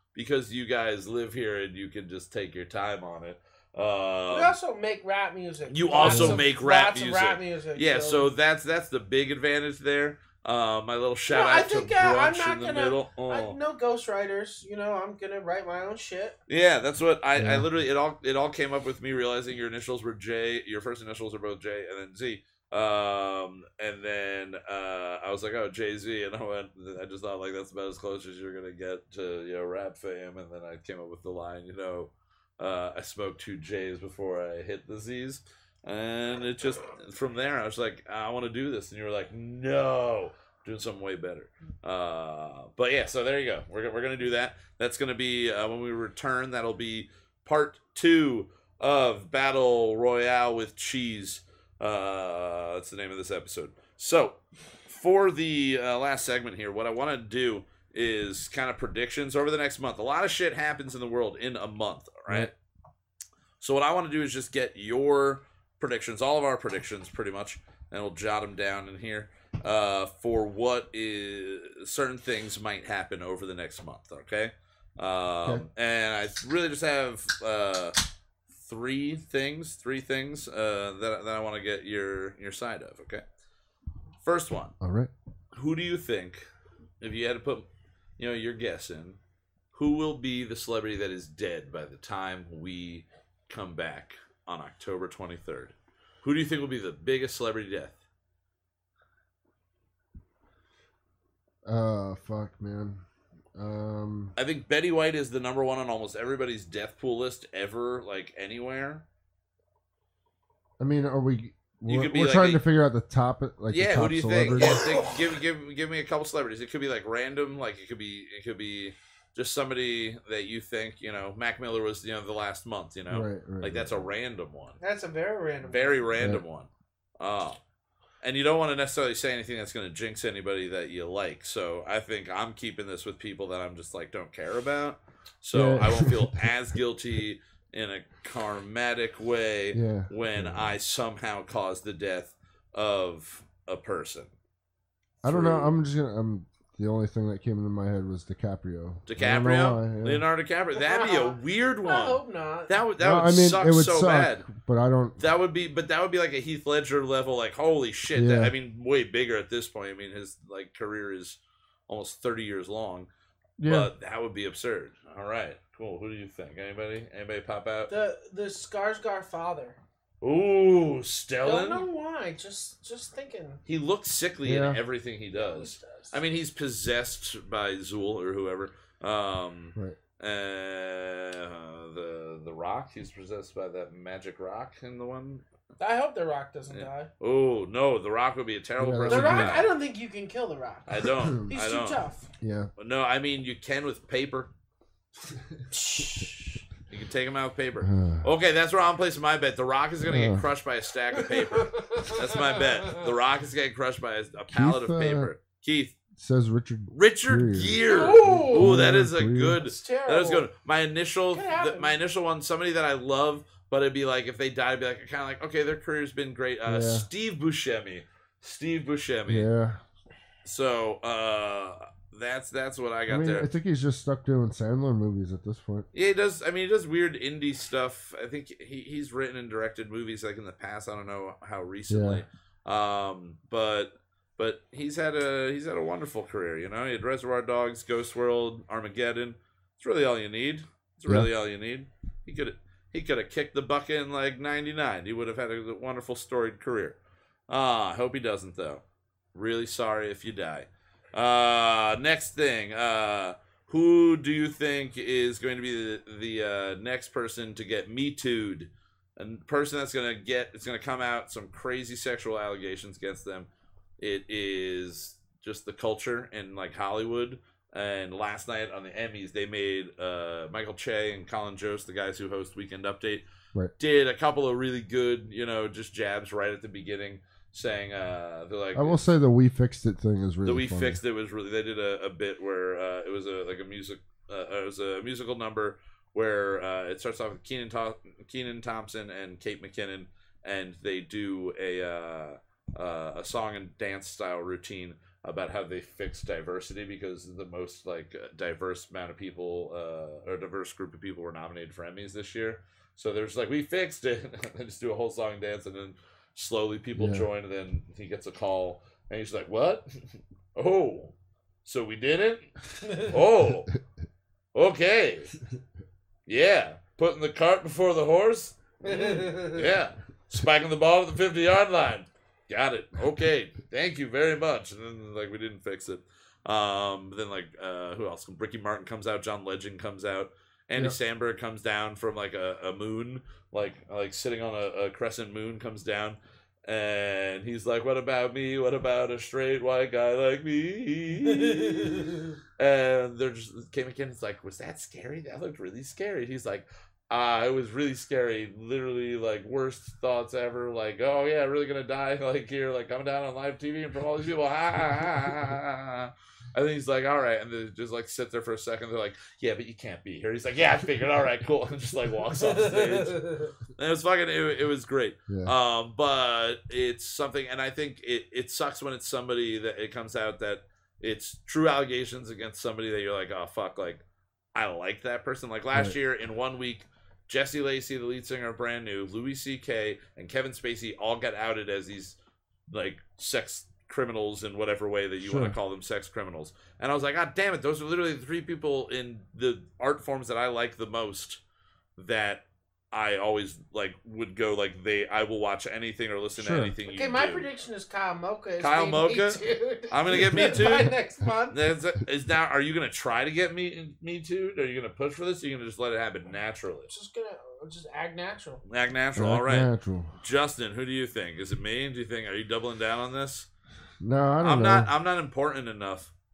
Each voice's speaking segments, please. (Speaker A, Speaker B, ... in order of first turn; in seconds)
Speaker A: 0.1-4.5, 5.7-13.6, 16.5-62.5, 63.6-78.0, 78.5-83.2, 84.2-84.7, 85.5-86.4, 87.0-87.7, 88.2-89.2, 89.7-98.0, 104.4-109.0, 111.9-112.6, 113.7-124.8, 125.6-127.6, 128.2-144.3, 145.2-145.8, 149.1-154.5, 155.2-163.1, 163.7-167.9, 170.2-171.8, 173.7-185.4, 186.7-189.7, 190.9-192.1, 192.8-194.5, 196.9-205.9, 206.9-219.5, 220.4-223.5, 225.9-247.0, 247.5-248.8, 249.3-263.5, 264.0-273.2, 273.8-279.0, 280.4-311.1, 311.6-313.7, 314.5-315.3, 316.3-374.0, 374.6-382.2, 382.7-391.4, 392.0-397.5, 398.6-400.9, 401.5-406.9, 408.7-409.7, 410.2-413.5, 414.4-416.1
Speaker B: 4.3-8.3, 11.3-16.4, 124.8-126.1, 150.8-152.8, 167.9-169.8, 171.4-173.6, 175.3-176.2, 185.8-187.1, 189.1-192.3, 195.7-196.6, 201.1-203.1, 207.9-208.8, 209.6-210.4, 211.3-212.0, 312.9-313.1, 318.8-319.7, 341.3-342.3, 362.4-363.5, 396.9-401.6, 406.9-408.6
Speaker C: 6.0-6.4, 17.4-17.7, 84.8-85.1, 101.7-103.0, 103.5-104.3, 110.8-115.0, 123.1-124.1, 126.2-126.4, 135.5-136.5, 139.7-140.7, 145.2-150.2, 153.0-155.2, 158.1-158.5, 163.6-163.9, 174.4-174.8, 188.8-189.7, 192.4-192.7, 197.8-198.3, 200.0-200.5, 204.5-205.3, 206.2-209.6, 216.7-217.1, 219.3-219.8, 223.1-225.9, 231.9-232.2, 278.8-281.0, 306.9-307.3, 385.2-385.6, 396.4-396.7, 409.1-410.1, 414.0-414.9